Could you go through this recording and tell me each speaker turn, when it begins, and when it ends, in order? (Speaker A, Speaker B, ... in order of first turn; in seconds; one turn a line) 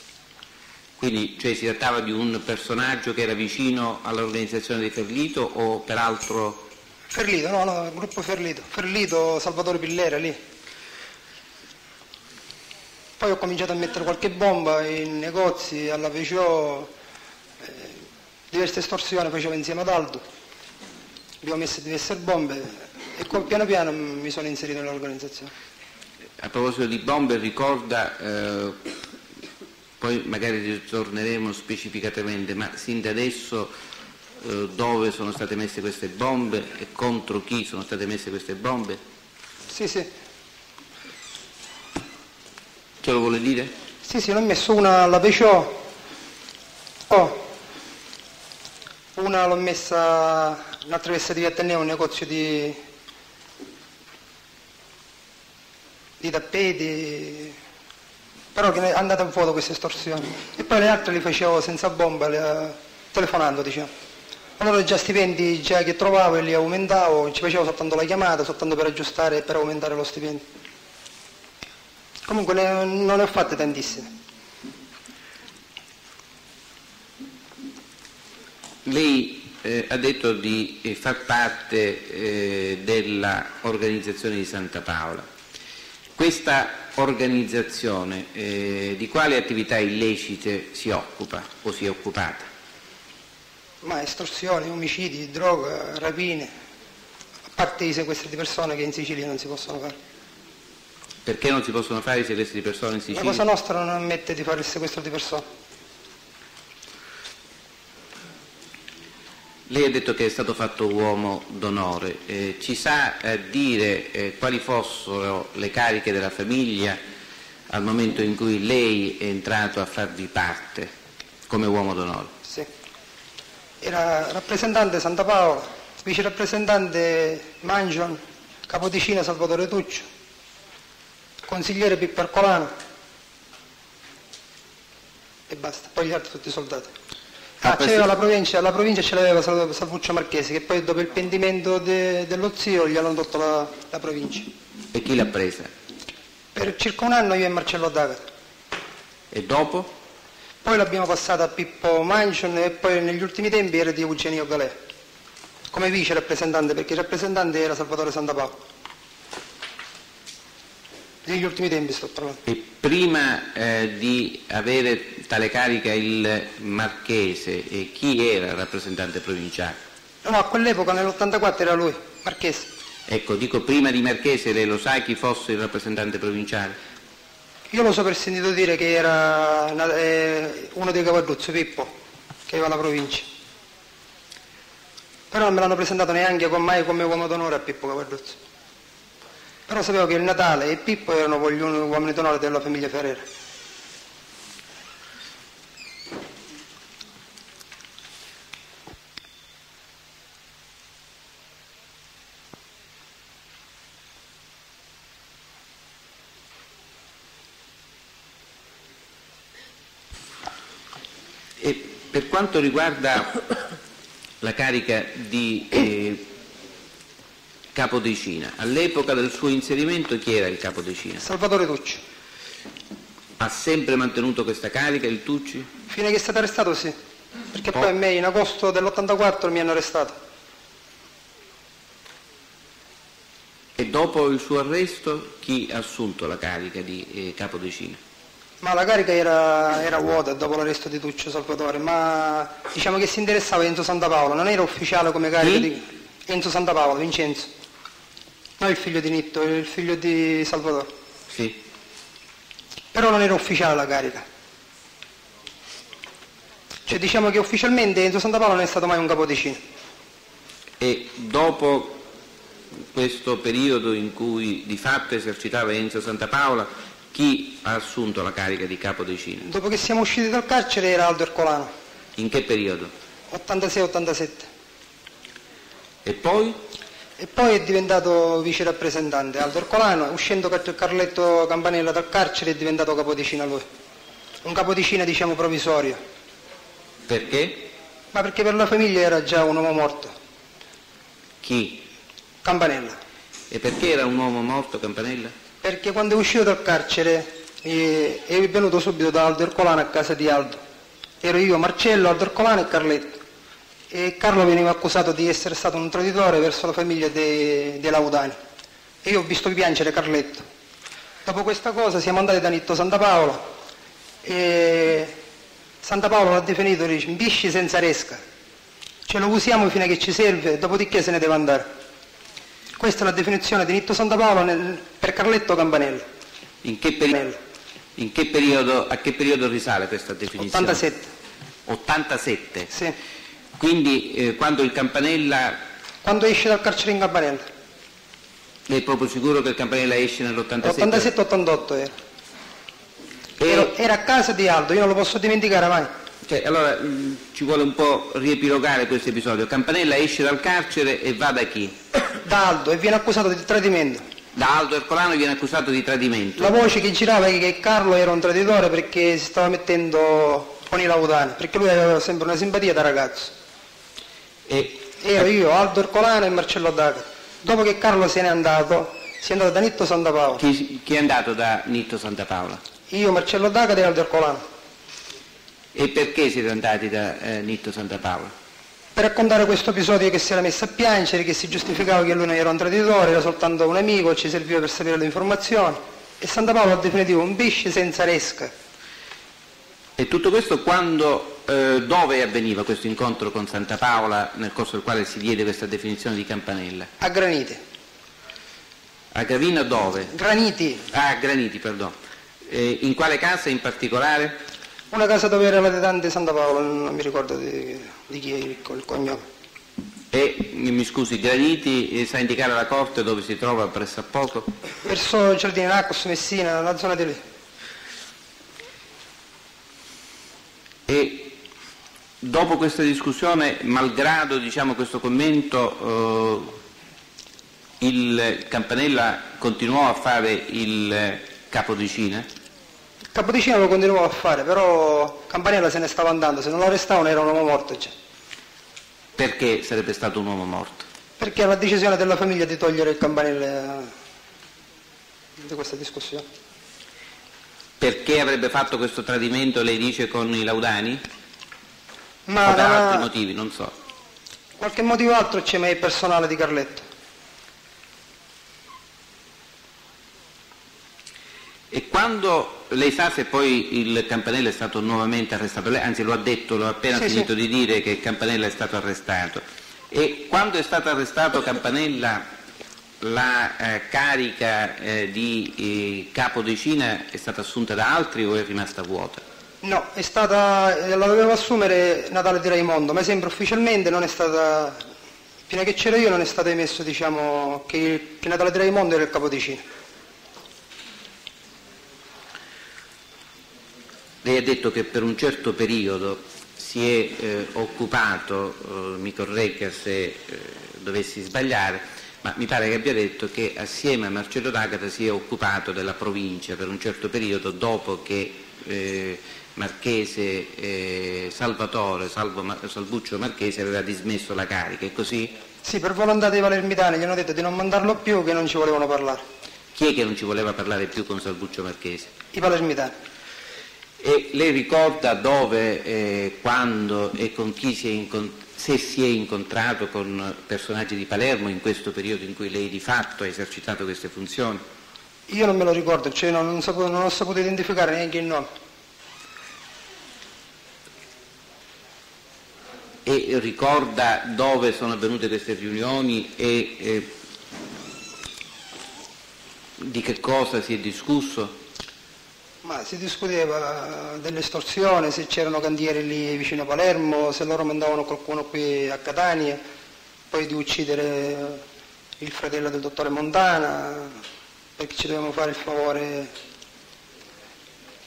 Speaker A: 1.0-6.7
Speaker B: 7.1-10.4
Speaker B: 13.2-16.9
Speaker B: 17.6-17.9
Speaker B: 18.5-20.2
Speaker B: 21.4-25.5
Speaker A: 26.4-28.8
Speaker A: 30.0-33.7
Speaker A: 34.4-39.0
Speaker B: 39.7-40.1
Speaker A: 43.0-43.7
Speaker B: 44.0-45.8
Speaker B: 47.1-47.5
Speaker B: 49.1-52.8
Speaker B: 56.2-57.5
Speaker B: 58.5-63.9
Speaker B: 64.6-70.4
Speaker B: 72.3-74.1
Speaker A: 78.8-85.2
Speaker A: 86.2-92.5
Speaker B: 93.8-96.5
Speaker B: 97.5-100.0
Speaker A: 101.2-103.4
Speaker B: 103.1-105.4
Speaker A: 109.7-117.0
Speaker A: 117.7-120.9
Speaker A: 121.5-122.3
Speaker B: 123.8-130.1
Speaker B: 131.5-132.7
Speaker B: 135.5-136.9
Speaker B: 137.6-144.5
Speaker A: 137.6-138.1
Speaker A: 144.9-145.7
Speaker B: 146.5-148.2
Speaker A: 149.3-149.9
Speaker B: 150.6-154.8
Speaker B: 155.7-158.5
Speaker B: 161.2-162.4
Speaker A: 162.4-169.8
Speaker B: 170.2-172.7
Speaker A: 173.1-176.8
Speaker B: 177.7-181.9
Speaker B: 182.5-183.3
Speaker B: 185.3-188.4
Speaker B: 189.7-193.2
Speaker A: 211.6-213.4
Speaker A: 214.4-216.3
Speaker A: 217.7-221.2
Speaker B: 221.2-222.0
Speaker A: 223.4-225.7
Speaker B: 225.9-226.9
Speaker B: 227.5-230.2
Speaker A: 233.8-238.0
Speaker B: 238.6-247.5
Speaker A: 245.4-245.7
Speaker B: 248.6-250.9
Speaker A: 251.3-251.6
Speaker B: 252.9-254.2
Speaker B: 256.9-259.6
Speaker A: 260.8-262.0
Speaker A: 262.9-269.4
Speaker B: 269.4-271.7
Speaker A: 272.1-272.9
Speaker B: 273.3-274.5
Speaker A: 276.0-276.6
Speaker B: 277.2-283.6
Speaker B: 284.4-286.0
Speaker A: 287.1-287.6
Speaker B: 288.1-290.1
Speaker A: 291.4-291.9
Speaker B: 292.4-292.9
Speaker A: 293.5-295.3
Speaker B: 295.6-300.6
Speaker B: 301.2-303.2
Speaker B: 303.9-308.4
Speaker B: 309.0-310.4
Speaker B: 311.2-313.4
Speaker B: 314.2-315.1
Speaker B: 315.8-318.2
Speaker B: 319.1-321.7
Speaker B: 322.8-326.0
Speaker A: 326.6-327.1
Speaker B: 327.1-327.4
Speaker A: 328.0-330.8
Speaker B: 330.4-331.1
Speaker A: 331.7-332.7
Speaker A: 333.6-335.6
Speaker B: 336.0-337.4
Speaker A: 338.7-341.1
Speaker B: 340.6-341.9
Speaker A: 343.4-343.7
Speaker B: 343.5-345.9
Speaker A: 346.2-351.7
Speaker B: 352.2-354.0
Speaker A: 354.3-356.5
Speaker B: 356.4-363.3
Speaker A: 364.5-365.3
Speaker B: 365.0-370.4
Speaker A: 370.4-372.6
Speaker B: 372.9-374.4
Speaker A: 375.7-378.3
Speaker B: 378.9-388.5
Speaker A: 390.0-396.9
Speaker B: 397.0-397.6
Speaker A: 399.1-400.1
Speaker B: 400.1-400.8
Speaker A: 400.9-401.9
Speaker A: 402.4-404.4
Speaker B: 404.9-409.2
Speaker A: 410.1-414.5
Speaker B: 414.8-417.2
Speaker A: 420.9-421.4
Speaker A: 422.2-426.6
Speaker A: 427.8-432.3
Speaker B: 433.1-437.9
Speaker A: 439.2-440.9
Speaker B: 441.2-443.9
Speaker B: 445.4-446.2
Speaker A: 447.8-451.0
Speaker B: 452.3-453.1
Speaker A: 452.4-453.7
Speaker B: 454.6-456.9
Speaker A: 461.7-472.2
Speaker B: 466.9-467.2
Speaker A: 473.0-479.2
Speaker B: 479.6-484.8
Speaker B: 485.5-489.6
Speaker A: 494.2-515.3
Speaker B: 515.6-519.2
Speaker A: 519.7-522.1
Speaker B: 522.3-522.9
Speaker A: 524.0-534.6
Speaker B: 535.3-538.5
Speaker A: 543.0-547.1
Speaker A: 549.8-551.5
Speaker B: 552.6-559.6
Speaker B: 560.3-561.6
Speaker B: 562.2-564.2
Speaker B: 564.8-566.3